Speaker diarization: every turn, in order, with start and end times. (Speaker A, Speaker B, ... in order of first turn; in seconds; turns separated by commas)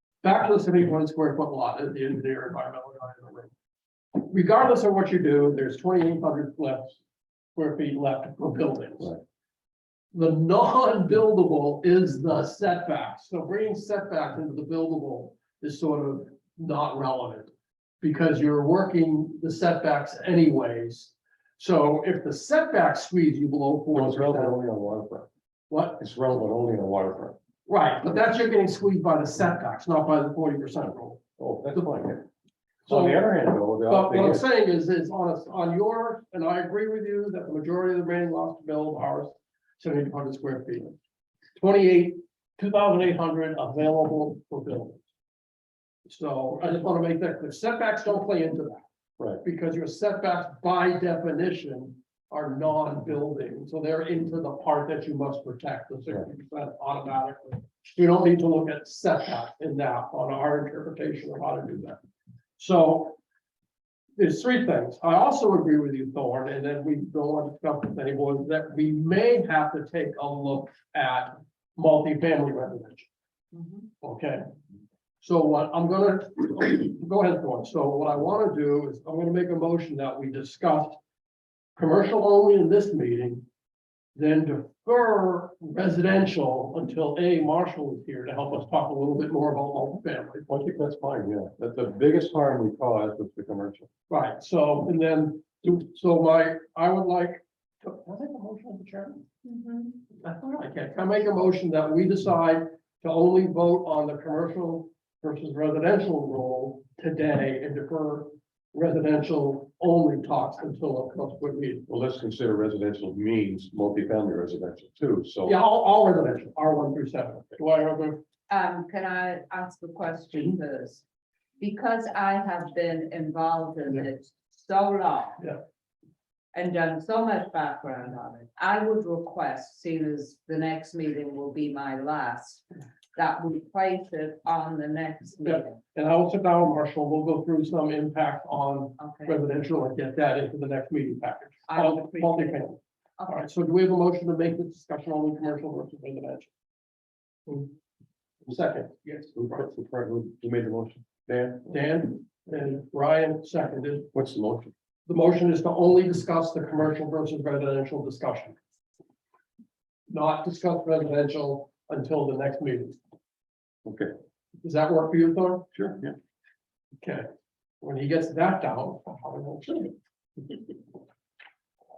Speaker A: 0.2-3.5, Speaker A: 4.1-7.0, Speaker A: 7.6-9.2, Speaker A: 10.1-24.6, Speaker B: 23.9-25.3, Speaker A: 25.7-26.0, Speaker B: 26.0-27.4, Speaker A: 27.7-31.2, Speaker B: 31.4-32.3, Speaker A: 32.9-33.2, Speaker B: 32.9-34.4, Speaker A: 33.9-41.0, Speaker A: 41.6-45.0, Speaker A: 46.1-48.8, Speaker A: 49.4-62.0, Speaker A: 62.6-63.2, Speaker A: 64.2-73.1, Speaker C: 73.5-73.8, Speaker A: 74.0-74.4, Speaker A: 75.2-81.0, Speaker A: 81.8-83.5, Speaker A: 84.2-90.5, Speaker B: 90.5-93.9, Speaker A: 94.1-99.3, Speaker C: 99.5-99.9, Speaker A: 100.2-111.9, Speaker B: 111.9-115.6, Speaker A: 115.5-118.2, Speaker C: 118.5-121.0, Speaker C: 121.6-125.4, Speaker C: 126.5-132.6, Speaker C: 133.2-135.8, Speaker A: 135.4-146.5, Speaker C: 139.0-139.4, Speaker C: 141.7-142.6, Speaker A: 148.5-149.4, Speaker B: 149.3-151.7, Speaker A: 151.7-154.1, Speaker B: 154.1-154.7, Speaker A: 155.1-158.6, Speaker A: 160.1-163.0, Speaker B: 163.8-164.1, Speaker A: 164.6-165.7, Speaker B: 165.7-166.2, Speaker A: 167.0-167.3, Speaker A: 167.8-169.9